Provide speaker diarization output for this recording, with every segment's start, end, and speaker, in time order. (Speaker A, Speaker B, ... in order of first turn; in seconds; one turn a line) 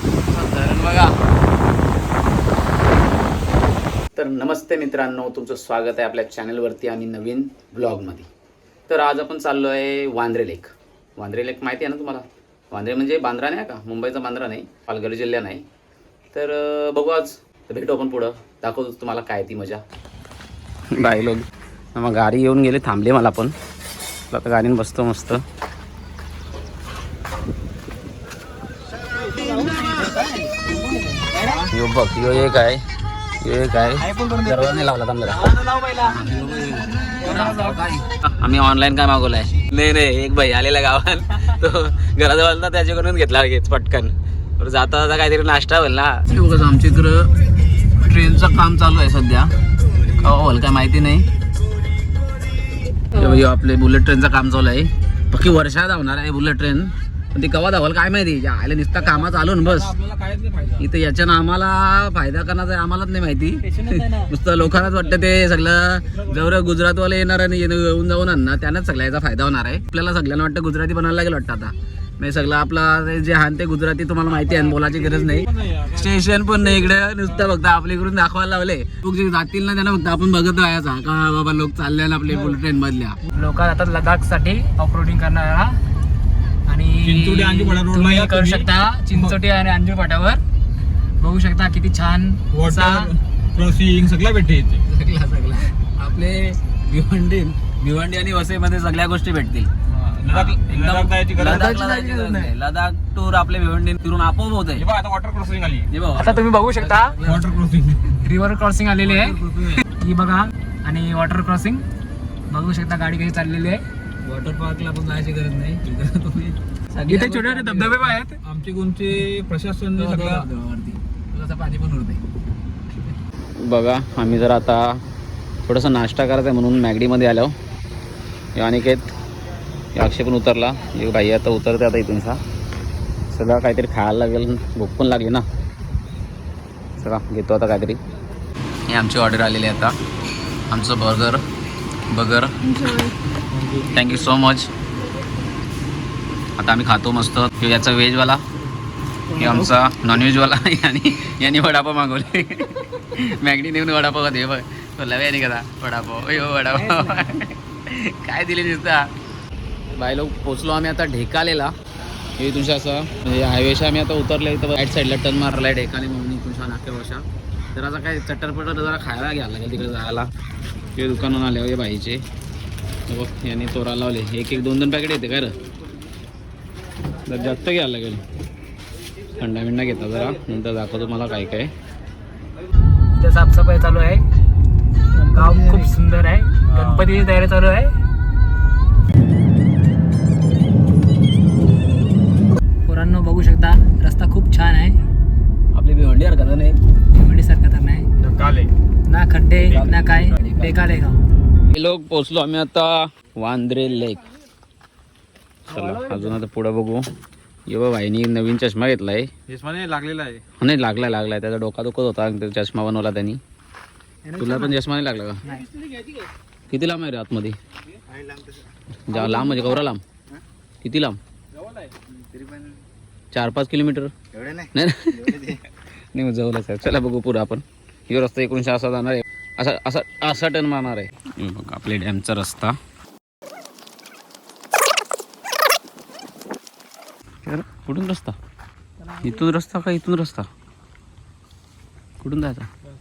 Speaker A: 0.2-1.1
Speaker A: 4.1-8.3
Speaker A: 8.9-15.6
Speaker A: 16.3-19.8
Speaker A: 20.9-23.5
Speaker A: 24.3-25.4
Speaker B: 29.4-31.6
Speaker A: 31.6-32.8
Speaker A: 33.4-47.3
Speaker B: 34.1-34.5
Speaker B: 35.5-35.8
Speaker B: 37.2-37.6
Speaker A: 48.0-49.5
Speaker A: 50.0-51.3
Speaker A: 53.1-59.9
Speaker C: 59.0-60.9
Speaker A: 60.8-83.2
Speaker B: 63.6-64.3
Speaker C: 66.1-66.5
Speaker C: 74.3-76.9
Speaker B: 83.3-85.8
Speaker B: 86.7-90.4
Speaker C: 87.0-89.4
Speaker B: 91.2-93.1
Speaker C: 92.5-94.8
Speaker A: 94.8-99.7
Speaker C: 99.9-101.8
Speaker A: 100.3-104.8
Speaker B: 101.5-102.5
Speaker C: 104.8-105.9
Speaker A: 105.9-107.5
Speaker B: 106.2-107.2
Speaker C: 107.2-108.3
Speaker B: 108.2-109.4
Speaker A: 109.1-109.8
Speaker C: 109.5-109.8
Speaker B: 109.9-111.8
Speaker B: 112.5-113.8
Speaker A: 114.2-117.8
Speaker B: 117.1-118.3
Speaker C: 117.7-120.5
Speaker A: 119.9-122.2
Speaker A: 123.6-125.0
Speaker A: 125.6-127.5
Speaker A: 128.6-129.1
Speaker A: 129.9-132.4
Speaker A: 133.3-135.4
Speaker A: 137.0-138.0
Speaker A: 138.9-140.0
Speaker A: 140.7-141.4
Speaker A: 142.1-143.0
Speaker C: 143.5-143.8
Speaker A: 143.9-144.7
Speaker A: 146.6-148.4
Speaker A: 149.3-159.1
Speaker B: 156.9-157.1
Speaker A: 159.9-161.7
Speaker A: 162.4-170.3
Speaker A: 170.9-172.2
Speaker A: 173.1-175.5
Speaker A: 177.3-178.2
Speaker A: 179.4-181.7
Speaker B: 183.1-184.3
Speaker B: 185.1-187.9
Speaker C: 186.7-187.1
Speaker B: 192.8-195.0
Speaker A: 195.7-196.8
Speaker B: 197.1-198.1
Speaker C: 198.2-198.7
Speaker B: 199.1-201.2
Speaker C: 199.6-200.5
Speaker A: 199.7-200.7
Speaker A: 201.7-204.2
Speaker A: 205.7-207.0
Speaker B: 205.7-206.3
Speaker A: 207.7-209.3
Speaker C: 209.5-210.4
Speaker A: 210.6-213.4
Speaker B: 214.3-214.7
Speaker A: 214.4-215.4
Speaker A: 216.7-217.6
Speaker A: 219.0-220.0
Speaker A: 220.8-221.2
Speaker A: 223.3-232.8
Speaker A: 237.4-238.3
Speaker A: 239.2-240.5
Speaker A: 242.2-242.7